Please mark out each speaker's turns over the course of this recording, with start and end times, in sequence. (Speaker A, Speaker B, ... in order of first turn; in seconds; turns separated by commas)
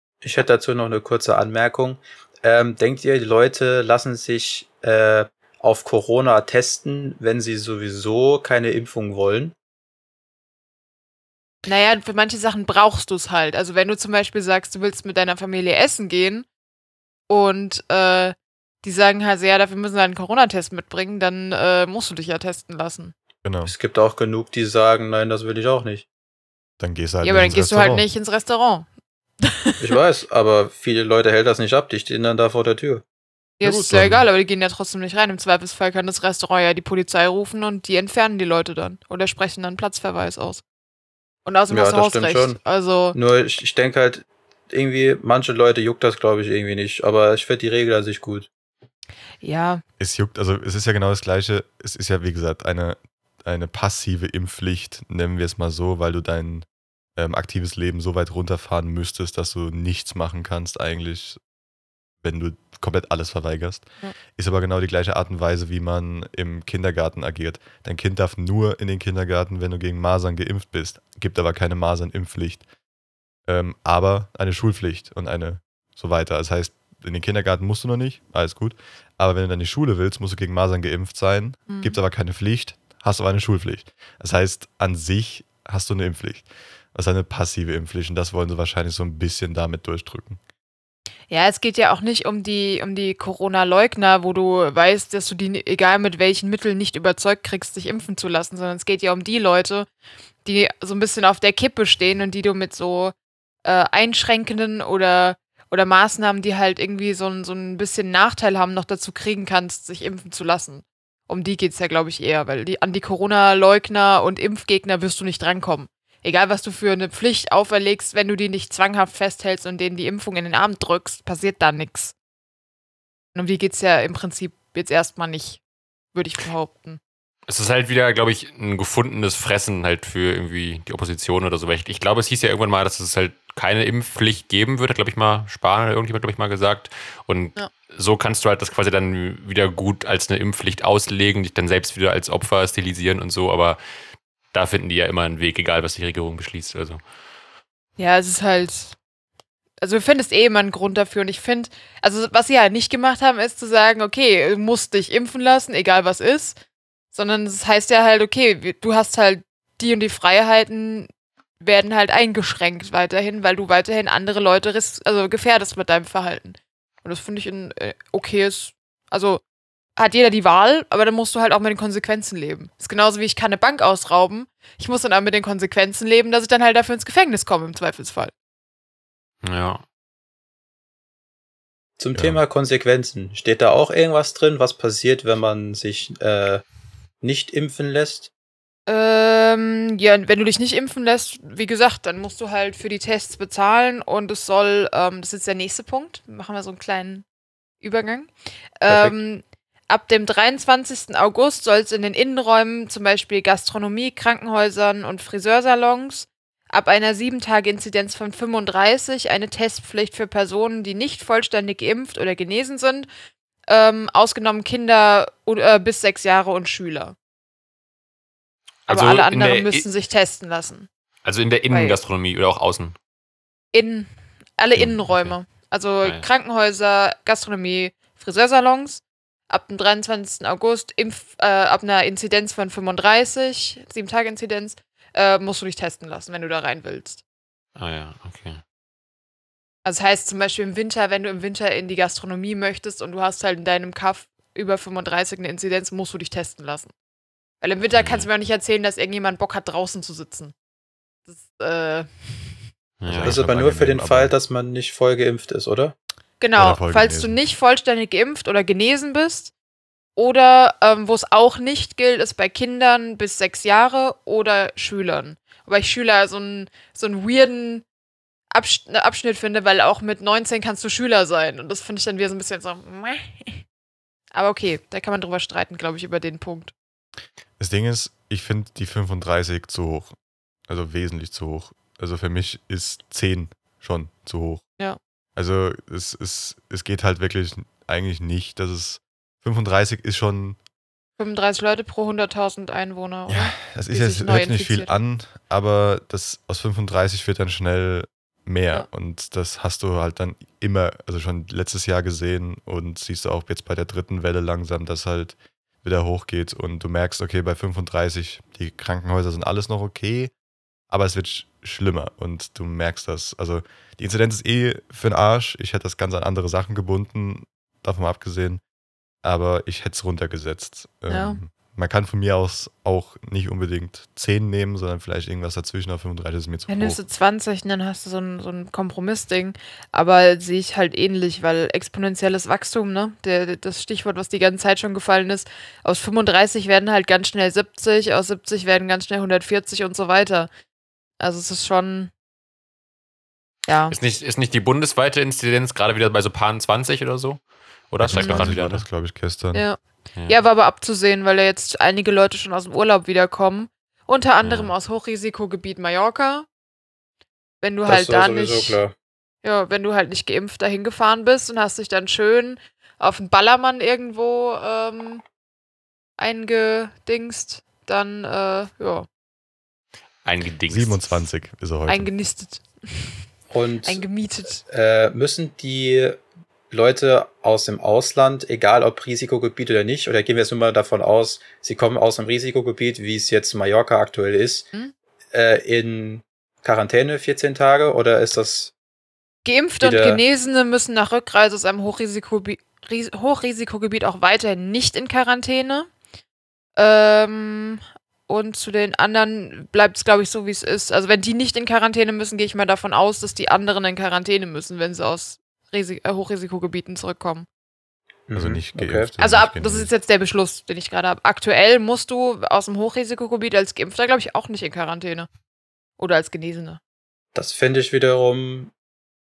Speaker A: 0.2-9.5, Speaker B: 11.6-16.5, Speaker B: 17.3-23.1, Speaker C: 23.4-23.7, Speaker A: 23.6-26.1, Speaker C: 26.8-28.1, Speaker B: 27.2-28.9, Speaker B: 29.4-29.9, Speaker A: 29.8-33.0, Speaker B: 33.6-40.6, Speaker C: 33.6-34.2, Speaker B: 41.4-43.2, Speaker A: 41.7-42.6, Speaker A: 43.1-48.5, Speaker B: 49.4-49.8, Speaker C: 50.0-61.4, Speaker C: 62.2-72.6, Speaker C: 73.5-90.4, Speaker B: 81.7-82.0, Speaker B: 91.3-99.9, Speaker B: 100.4-122.1, Speaker B: 123.3-125.6, Speaker B: 126.1-127.0, Speaker D: 127.5-143.8, Speaker D: 144.5-147.0, Speaker B: 148.0-148.9, Speaker B: 149.8-156.6, Speaker B: 157.1-169.4, Speaker B: 169.9-178.3, Speaker D: 179.4-179.8, Speaker A: 182.0-186.6, Speaker A: 187.2-188.3, Speaker B: 188.9-197.2, Speaker B: 197.8-213.1, Speaker B: 213.7-217.1, Speaker D: 218.9-219.8, Speaker B: 218.9-220.9, Speaker D: 221.2-222.9, Speaker B: 221.7-222.0, Speaker B: 223.7-237.2, Speaker D: 224.8-225.3, Speaker D: 237.8-238.6, Speaker B: 239.8-246.9, Speaker B: 247.6-250.5, Speaker D: 247.9-248.3, Speaker B: 251.3-252.6, Speaker D: 253.0-253.4, Speaker C: 253.1-254.3, Speaker A: 253.2-255.9, Speaker B: 256.4-259.5, Speaker C: 256.6-257.4, Speaker B: 260.1-267.8, Speaker B: 268.5-273.6, Speaker B: 274.3-276.7, Speaker C: 277.6-280.1, Speaker C: 280.7-284.6, Speaker C: 285.4-290.6, Speaker B: 291.2-294.9, Speaker C: 293.3-310.3, Speaker C: 310.9-318.6, Speaker C: 319.2-327.0, Speaker B: 321.1-321.4, Speaker B: 326.7-340.5, Speaker B: 341.2-342.1, Speaker B: 343.7-343.9, Speaker D: 343.9-348.9, Speaker C: 348.0-349.6, Speaker B: 348.1-348.5, Speaker B: 349.5-356.4, Speaker D: 354.4-354.7, Speaker B: 357.6-358.8, Speaker A: 357.8-358.9, Speaker B: 359.4-365.2, Speaker B: 366.2-369.1, Speaker D: 370.2-371.2, Speaker C: 370.7-372.1, Speaker B: 371.9-373.2, Speaker A: 373.5-374.0, Speaker B: 373.8-374.6, Speaker A: 374.6-384.7, Speaker A: 385.3-388.7, Speaker B: 389.4-395.9, Speaker A: 389.8-390.2, Speaker B: 396.8-407.5, Speaker A: 408.3-409.1, Speaker C: 408.3-409.9, Speaker B: 409.2-415.3, Speaker B: 416.0-416.8, Speaker A: 417.3-418.7